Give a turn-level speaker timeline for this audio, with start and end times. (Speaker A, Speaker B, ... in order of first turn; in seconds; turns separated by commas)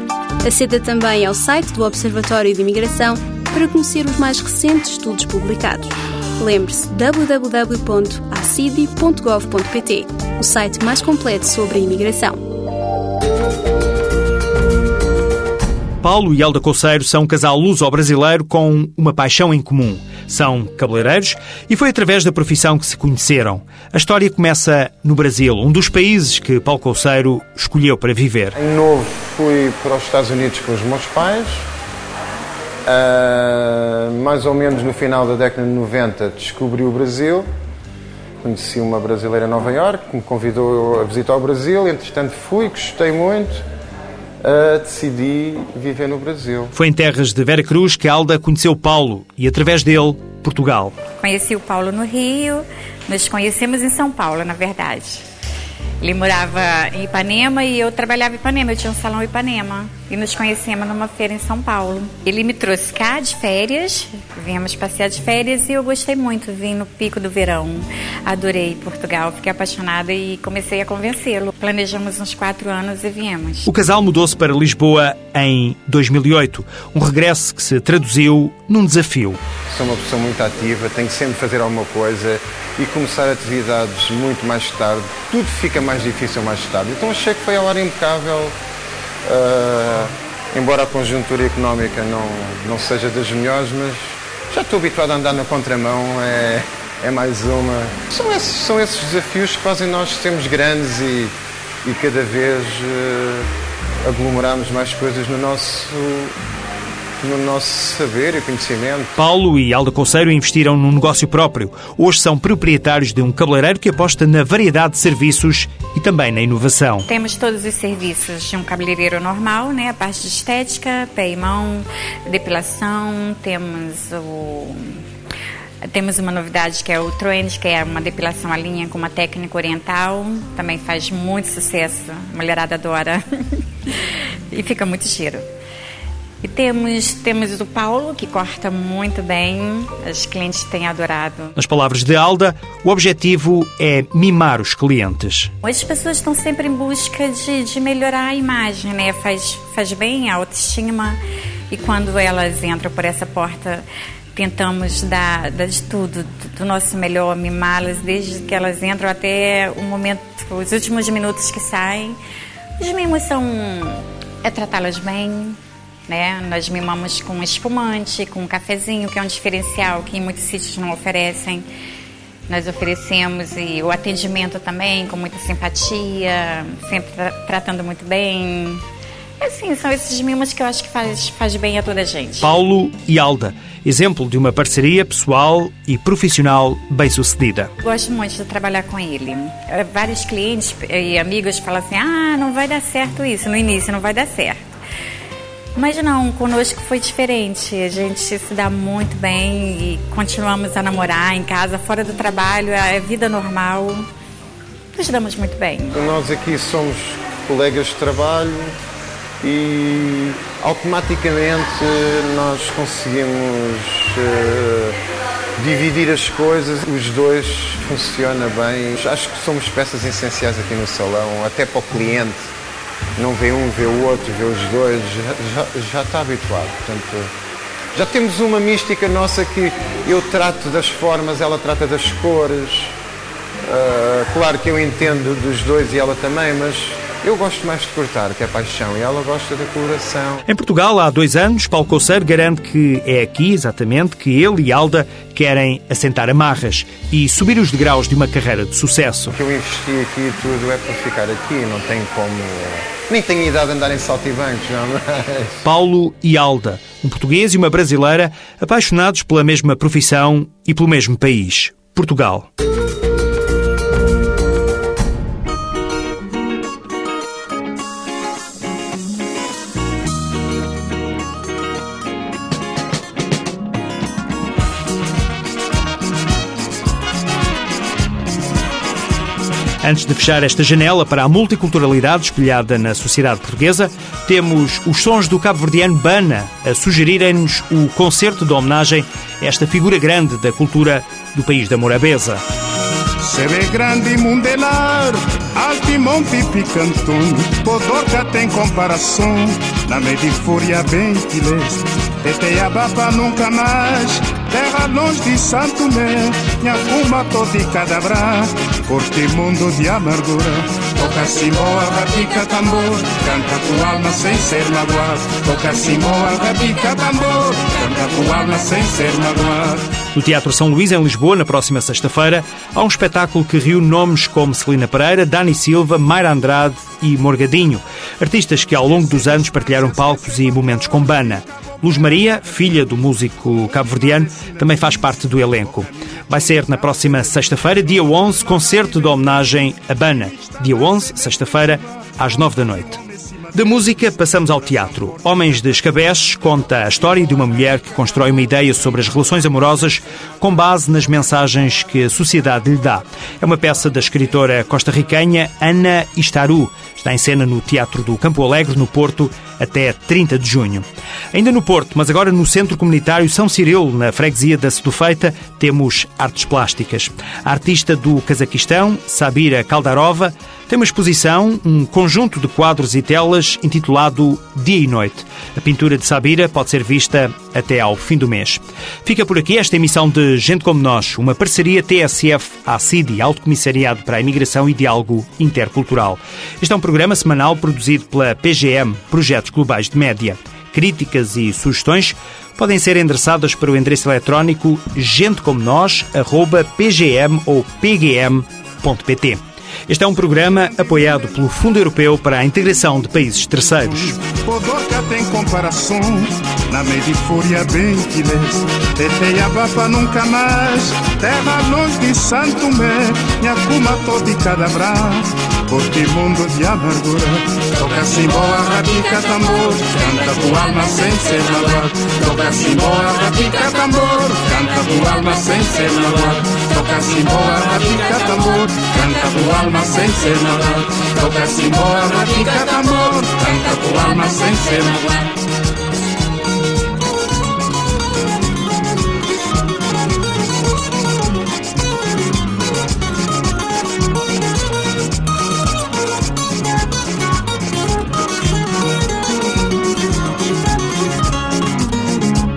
Speaker A: 0.4-12.4, Speaker B: 16.0-28.5, Speaker C: 28.6-31.6, Speaker C: 32.9-37.5, Speaker C: 38.4-43.6, Speaker C: 44.4-46.7, Speaker B: 46.8-51.0, Speaker D: 51.2-55.2, Speaker D: 56.0-73.7, Speaker B: 73.7-79.4, Speaker C: 79.7-88.5, Speaker C: 89.3-103.5, Speaker C: 104.0-106.4, Speaker C: 107.2-109.1, Speaker B: 109.2-117.1, Speaker D: 117.1-125.0, Speaker D: 125.9-133.9, Speaker D: 134.5-135.4, Speaker D: 136.4-141.6, Speaker B: 141.6-145.5, Speaker D: 145.6-151.2, Speaker D: 151.7-162.2, Speaker D: 162.8-171.7, Speaker D: 172.5-178.8, Speaker D: 179.4-182.5, Speaker B: 182.4-187.7, Speaker D: 187.8-194.6, Speaker D: 195.8-204.1, Speaker D: 204.9-206.0, Speaker C: 205.9-208.8, Speaker C: 209.4-215.0, Speaker C: 215.6-222.4, Speaker C: 223.2-227.3, Speaker C: 227.9-232.9, Speaker C: 233.7-240.4, Speaker B: 240.5-249.3, Speaker C: 249.3-255.6, Speaker B: 255.6-262.5, Speaker B: 279.8-292.4, Speaker E: 293.2-320.0, Speaker B: 320.1-343.0, Speaker E: 329.4-330.3, Speaker E: 334.3-334.6, Speaker E: 342.9-343.4, Speaker B: 343.5-404.2, Speaker E: 403.9-435.3